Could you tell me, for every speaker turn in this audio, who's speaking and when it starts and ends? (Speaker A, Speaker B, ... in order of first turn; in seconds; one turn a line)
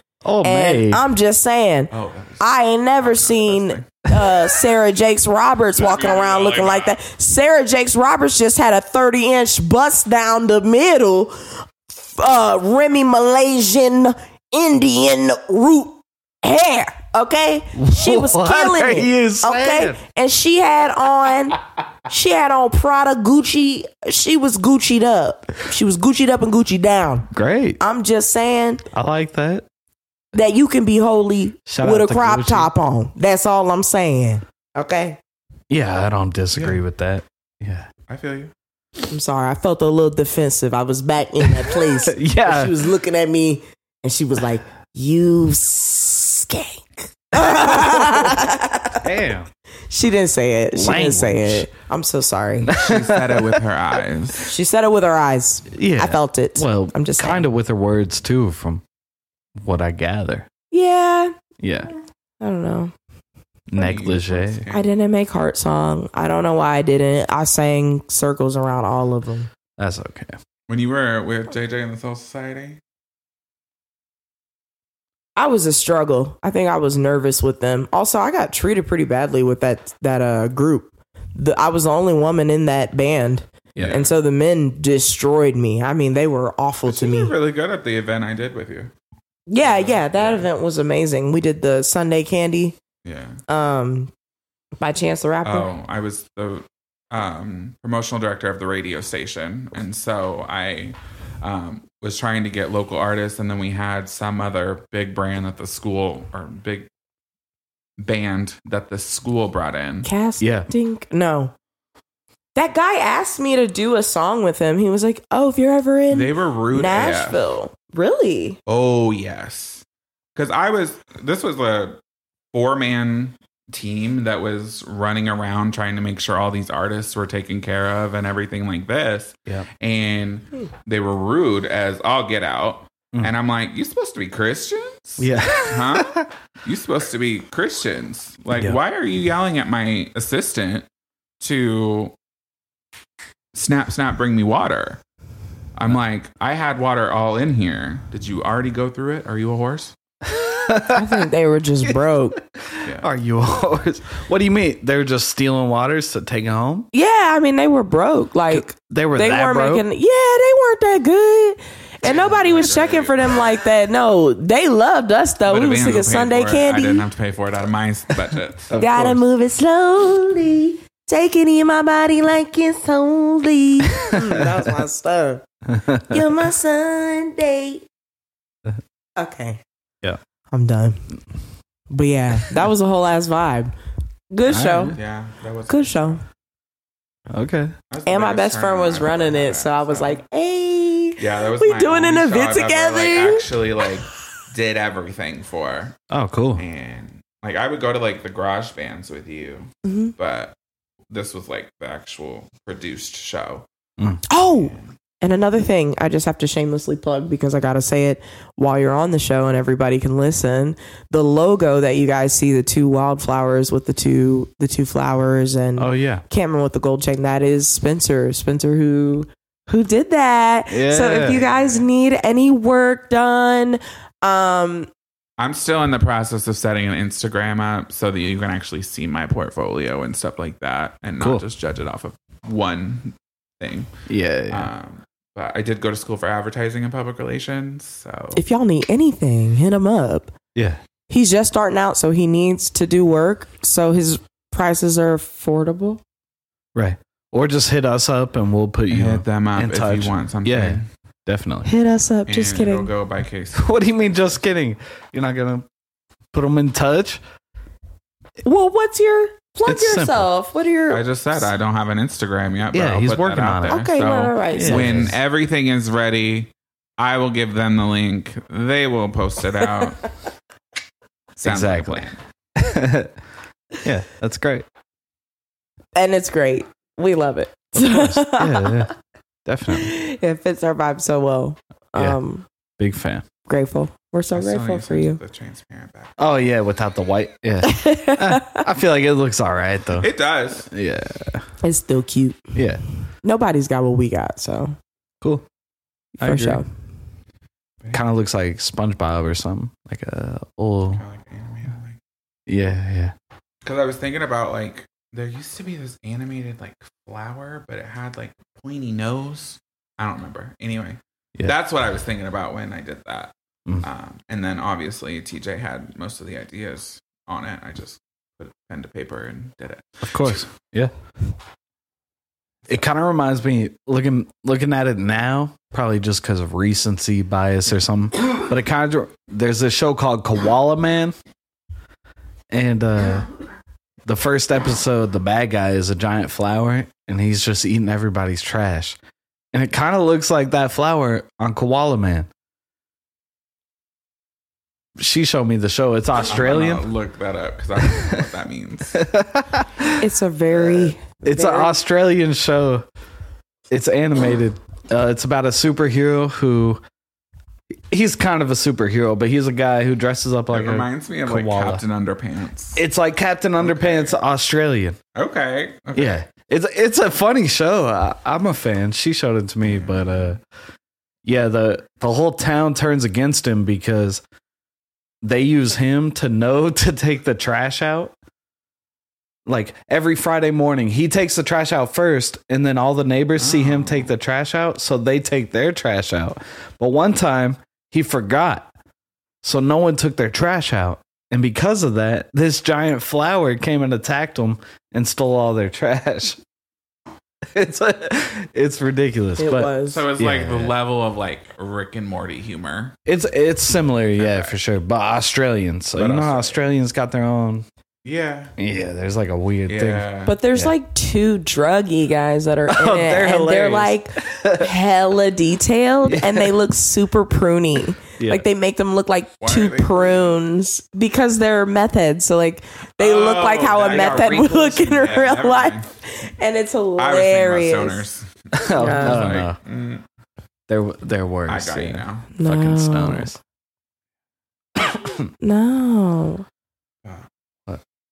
Speaker A: 0.2-1.0
Speaker B: 0.4-27.3
Speaker C: 1.9-2.5
Speaker C: 3.0-4.1
Speaker C: 5.8-7.0
Speaker A: 17.8-20.0
Speaker A: 27.3-27.8
Speaker B: 27.8-28.8
Speaker A: 28.9-29.6
Speaker B: 30.3-35.2
Speaker A: 31.7-32.7
Speaker A: 35.7-37.9
Speaker C: 36.5-36.8
Speaker C: 38.1-38.5
Speaker B: 39.1-49.0
Speaker A: 41.4-42.7
Speaker A: 49.0-49.5
Speaker B: 49.9-52.7
Speaker A: 50.7-51.7
Speaker A: 52.6-53.6
Speaker C: 52.7-54.5
Speaker B: 54.5-57.5
Speaker A: 55.7-58.8
Speaker A: 59.6-60.5
Speaker B: 60.7-61.3
Speaker A: 61.6-61.9
Speaker B: 62.4-62.9
Speaker A: 63.7-64.6
Speaker C: 63.8-64.8
Speaker B: 64.7-69.5
Speaker A: 69.8-70.3
Speaker C: 70.7-72.8
Speaker B: 75.3-87.3
Speaker A: 83.7-84.0
Speaker C: 83.8-84.1
Speaker C: 86.8-88.9
Speaker B: 89.5-92.8
Speaker C: 89.6-90.5
Speaker C: 93.0-93.4
Speaker B: 93.5-94.1
Speaker B: 94.8-95.7
Speaker C: 95.4-106.9
Speaker C: 108.0-110.1
Speaker B: 110.0-111.5
Speaker A: 110.4-110.7
Speaker B: 112.5-118.6
Speaker C: 116.1-117.4
Speaker C: 118.7-119.8
Speaker C: 120.3-122.0
Speaker C: 122.5-140.8
Speaker A: 135.2-136.3
Speaker C: 141.4-142.1
Speaker C: 143.5-145.0
Speaker C: 145.8-149.9
Speaker A: 150.2-151.2
Speaker B: 150.9-152.4
Speaker A: 152.4-156.9
Speaker B: 156.9-167.0
Speaker A: 158.5-159.8
Speaker C: 162.0-163.5
Speaker C: 165.4-168.8
Speaker A: 168.7-169.2
Speaker B: 168.8-175.4
Speaker A: 173.9-174.6
Speaker A: 175.7-176.2
Speaker B: 176.1-177.8
Speaker B: 179.2-179.6
Speaker B: 180.5-181.0
Speaker B: 181.9-183.7
Speaker B: 184.3-184.9
Speaker A: 184.5-184.9
Speaker C: 184.9-186.2
Speaker B: 185.7-186.2
Speaker A: 187.3-187.7
Speaker C: 187.9-190.2
Speaker B: 188.1-193.5
Speaker C: 191.2-195.9
Speaker A: 196.1-196.6
Speaker C: 196.6-200.5
Speaker B: 199.8-200.1
Speaker C: 201.1-203.7
Speaker A: 204.0-204.2
Speaker B: 204.3-224.9
Speaker C: 204.5-204.9
Speaker A: 215.8-216.2
Speaker A: 220.7-221.4
Speaker C: 221.2-221.8
Speaker C: 225.4-233.9
Speaker A: 234.1-234.7
Speaker C: 234.5-238.4
Speaker B: 238.3-240.3
Speaker A: 240.5-240.8
Speaker B: 241.1-246.0
Speaker A: 246.7-251.7
Speaker C: 248.9-250.8
Speaker B: 251.6-252.9
Speaker C: 252.3-253.8
Speaker A: 253.5-255.7
Speaker A: 256.3-257.2
Speaker B: 258.4-261.4
Speaker A: 259.6-260.3
Speaker C: 260.9-270.0
Speaker A: 262.7-263.8
Speaker B: 263.7-265.0
Speaker A: 264.5-265.2
Speaker C: 271.4-272.2
Speaker A: 271.4-273.1
Speaker A: 273.8-274.6
Speaker B: 275.9-278.9
Speaker A: 277.8-278.9
Speaker A: 279.4-279.9
Speaker B: 279.7-282.4
Speaker A: 282.8-283.2
Speaker B: 283.5-285.2
Speaker C: 284.3-286.2
Speaker A: 286.2-290.1
Speaker B: 287.6-288.6
Speaker C: 290.0-290.7
Speaker A: 290.7-291.4
Speaker B: 291.6-292.5
Speaker A: 292.5-292.8
Speaker B: 293.2-294.8
Speaker A: 296.2-296.6
Speaker B: 296.2-296.7
Speaker A: 297.9-301.0
Speaker C: 300.9-302.0
Speaker A: 302.5-303.1
Speaker C: 303.6-320.4
Speaker A: 320.0-320.9
Speaker A: 322.7-331.1
Speaker A: 332.5-333.3
Speaker A: 334.1-339.0
Speaker A: 339.5-342.3
Speaker A: 345.0-346.9
Speaker C: 346.2-349.0
Speaker A: 347.8-348.2
Speaker A: 348.9-350.0
Speaker B: 350.0-351.8
Speaker A: 350.5-352.9
Speaker A: 353.7-356.8
Speaker A: 357.9-361.8
Speaker C: 360.5-362.8
Speaker A: 362.8-365.0
Speaker C: 363.6-364.2
Speaker C: 365.1-366.2
Speaker A: 365.9-370.4
Speaker C: 369.6-370.3
Speaker A: 371.2-374.2
Speaker A: 375.2-378.1
Speaker A: 379.4-388.7
Speaker C: 383.4-384.1
Speaker A: 389.4-396.4
Speaker A: 397.5-400.7
Speaker B: 399.4-400.0
Speaker C: 399.9-402.9
Speaker A: 403.1-407.6
Speaker C: 404.1-404.5
Speaker C: 405.9-406.6
Speaker C: 408.0-408.5
Speaker A: 408.6-410.7
Speaker C: 409.7-410.4
Speaker B: 410.2-428.0
Speaker A: 412.7-414.7
Speaker A: 416.1-416.6
Speaker A: 418.2-418.4
Speaker C: 419.4-420.4
Speaker C: 423.0-425.9
Speaker C: 427.0-430.0
Speaker A: 428.5-429.6
Speaker B: 428.8-429.3
Speaker A: 430.7-433.4
Speaker C: 431.5-432.3
Speaker B: 432.4-433.3
Speaker A: 434.8-435.3
Speaker B: 435.4-436.4